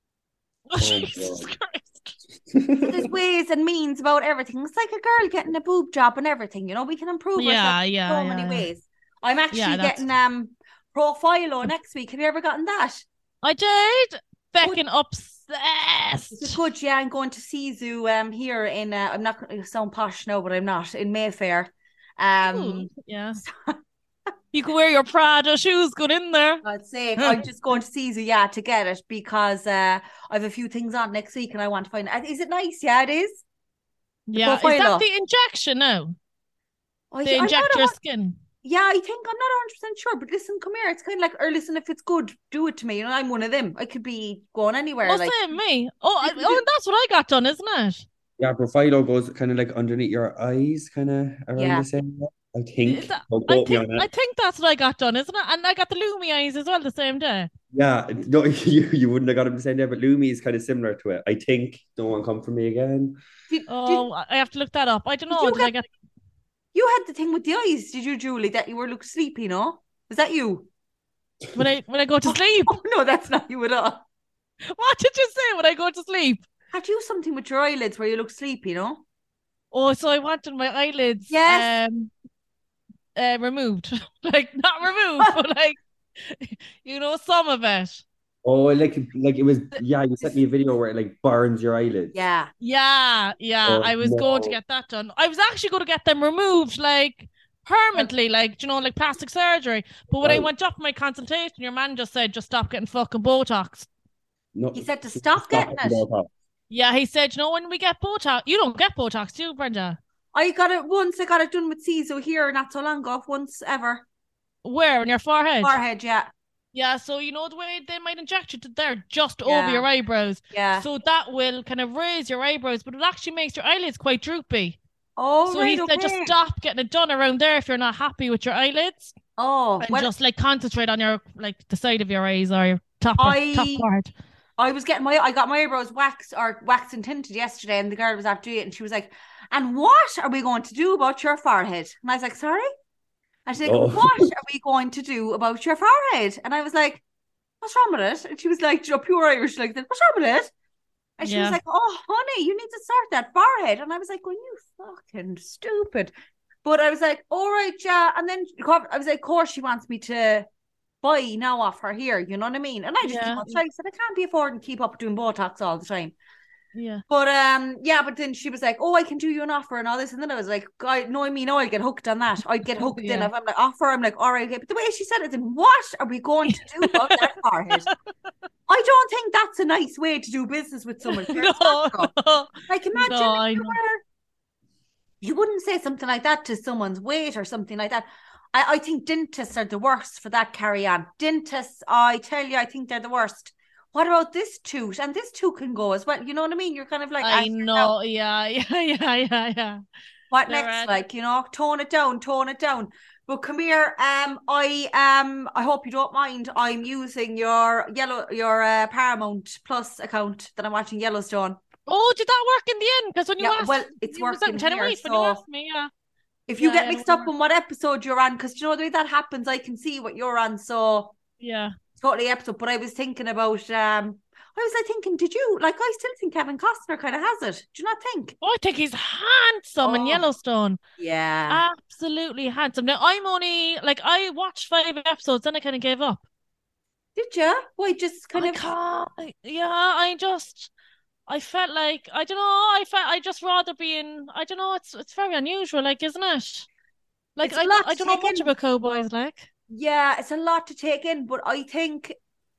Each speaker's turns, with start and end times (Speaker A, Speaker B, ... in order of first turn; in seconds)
Speaker A: 0.7-2.2, 7.4-8.7, 9.5-10.0, 13.4-16.6, 22.4-23.4, 24.5-26.6, 27.2-27.4, 34.3-36.2, 37.2-38.4, 45.0-48.1, 52.9-57.5, 63.7-65.9, 71.5-72.8, 74.7-76.5, 79.7-82.1, 83.2-88.0, 92.6-103.9, 106.7-110.0, 114.6-115.8, 116.7-124.8, 125.5-129.1, 129.8-134.1, 151.2-151.6, 163.0-163.6, 166.8-167.0, 172.8-173.3, 176.5-177.9, 181.1-183.8, 197.2-199.8, 200.5-201.0, 211.9-215.9, 216.6-217.3, 221.4-221.8, 228.4-230.8, 231.5-236.2, 238.3-240.7, 241.3-246.7, 247.4-249.5
Speaker B: 0.8-1.5, 2.5-3.1, 48.4-54.1, 57.7-63.2, 88.4-92.1, 93.7-94.6, 100.2-100.5, 104.5-106.3, 143.6-144.3
Speaker C: 2.9-13.1, 16.3-23.8, 26.6-33.4, 34.4-35.1, 37.1-38.0, 38.6-45.4, 46.2-46.6, 51.6-51.9, 63.5-64.1, 65.3-65.7, 66.7-70.7, 72.3-74.0, 76.7-79.0, 81.3-81.7, 92.1-92.5, 104.7-106.0, 110.3-114.0, 115.6-116.3, 119.5-119.9, 120.5-120.8, 125.2-126.3, 129.4-130.1, 133.2-133.9, 134.6-142.7, 143.5-147.0, 147.6-150.5, 151.2-156.1, 156.7-160.5, 161.0-166.2, 167.1-177.9, 178.7-182.1, 182.7-184.0, 185.2-197.9, 200.3-211.6, 213.4-215.4, 216.5-221.1, 222.0-228.3, 229.8-230.2, 231.0-231.6, 237.2-238.7, 247.4-248.5, 249.7-252.2